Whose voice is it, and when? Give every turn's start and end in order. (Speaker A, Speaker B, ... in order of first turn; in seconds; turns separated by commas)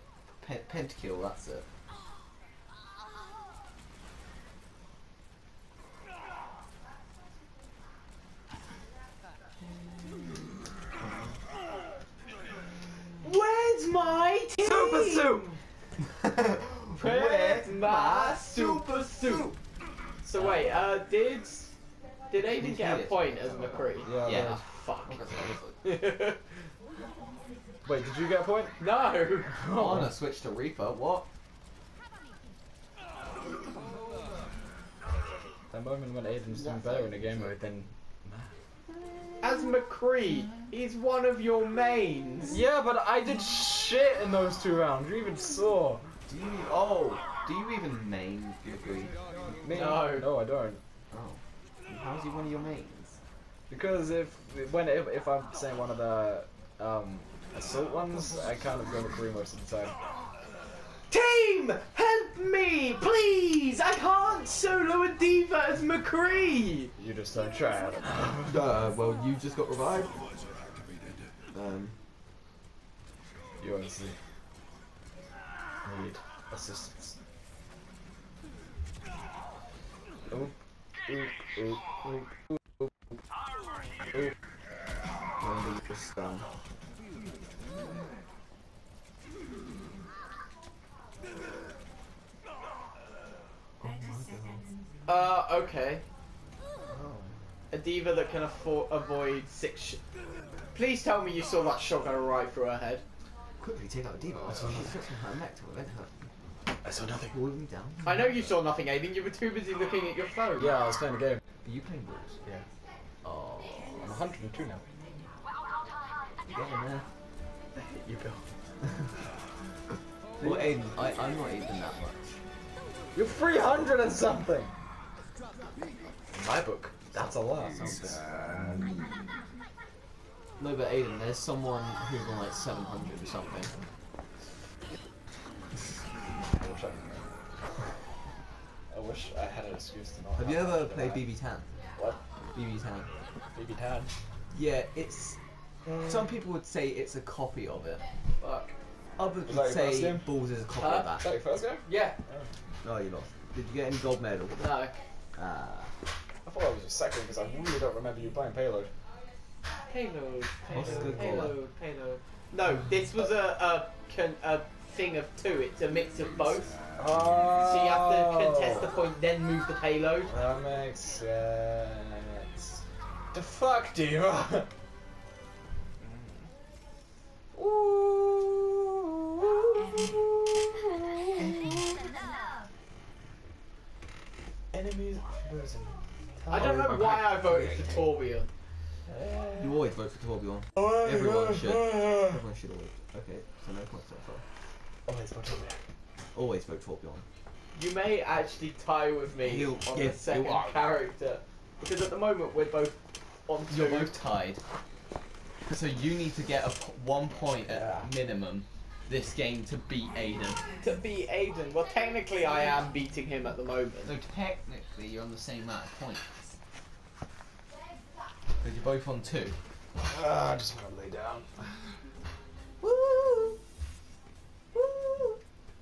Speaker A: 0.4-1.7, Speaker A: 11.0-11.4, Speaker B: 13.2-15.4, Speaker C: 14.6-15.6, Speaker A: 16.0-19.6, Speaker B: 16.9-19.5, Speaker B: 20.2-21.7, Speaker A: 20.4-20.8, Speaker B: 22.3-26.4, Speaker A: 22.4-25.8, Speaker C: 24.0-24.6, Speaker C: 27.9-28.8, Speaker B: 28.8-29.5, Speaker C: 29.5-30.1, Speaker A: 29.7-31.3, Speaker C: 35.7-38.5, Speaker A: 37.0-37.5, Speaker B: 39.4-42.6, Speaker C: 42.5-46.0, Speaker A: 46.3-49.1, Speaker C: 49.6-50.8, Speaker B: 49.7-50.3, Speaker A: 51.1-53.2, Speaker C: 53.7-59.9, Speaker B: 61.1-66.9, Speaker C: 67.0-68.6, Speaker A: 68.5-70.2, Speaker A: 71.5-72.0, Speaker C: 73.6-74.2, Speaker C: 75.8-77.2, Speaker C: 81.1-82.9, Speaker A: 85.4-86.5, Speaker A: 93.8-94.6, Speaker B: 95.1-96.0, Speaker A: 96.9-97.4, Speaker B: 97.7-100.0, Speaker B: 100.7-103.0, Speaker A: 103.6-106.3, Speaker C: 104.5-104.9, Speaker C: 106.8-107.4, Speaker A: 107.3-108.5, Speaker B: 108.0-110.7, Speaker C: 110.6-111.4, Speaker A: 111.6-112.4, Speaker A: 113.2-114.1, Speaker C: 114.0-114.8, Speaker A: 116.5-117.1, Speaker C: 117.8-118.5, Speaker A: 120.4-122.4, Speaker C: 120.4-120.8, Speaker C: 123.2-124.7, Speaker C: 126.3-128.2, Speaker A: 130.6-133.7, Speaker C: 136.5-137.3, Speaker C: 138.9-141.2, Speaker A: 140.4-141.7, Speaker A: 142.5-143.1, Speaker C: 143.5-144.1, Speaker A: 144.5-145.4, Speaker C: 145.9-146.3, Speaker A: 146.0-148.0, Speaker B: 148.4-148.7, Speaker A: 149.2-151.3, Speaker C: 149.5-150.3, Speaker B: 150.8-151.1, Speaker C: 151.1-152.5, Speaker B: 151.9-152.2, Speaker A: 152.8-154.7, Speaker B: 154.6-155.0, Speaker A: 155.4-155.9, Speaker C: 156.5-158.9, Speaker B: 159.9-166.8, Speaker A: 160.7-161.5, Speaker C: 160.7-161.5, Speaker C: 167.0-168.9, Speaker B: 167.6-170.3, Speaker C: 170.3-172.8, Speaker C: 173.3-174.7, Speaker C: 177.6-180.8, Speaker C: 181.4-181.8, Speaker C: 184.7-188.1, Speaker B: 186.5-188.5, Speaker A: 186.6-187.2, Speaker C: 189.1-189.9, Speaker A: 189.6-194.4, Speaker C: 190.8-192.4, Speaker C: 195.1-195.8, Speaker A: 196.3-197.3, Speaker B: 197.8-204.2, Speaker A: 199.4-200.8, Speaker A: 203.7-204.6, Speaker A: 205.7-210.6, Speaker B: 210.8-214.1, Speaker A: 214.0-216.3, Speaker A: 218.6-219.6, Speaker C: 220.0-222.0, Speaker A: 222.8-223.6, Speaker A: 224.8-225.3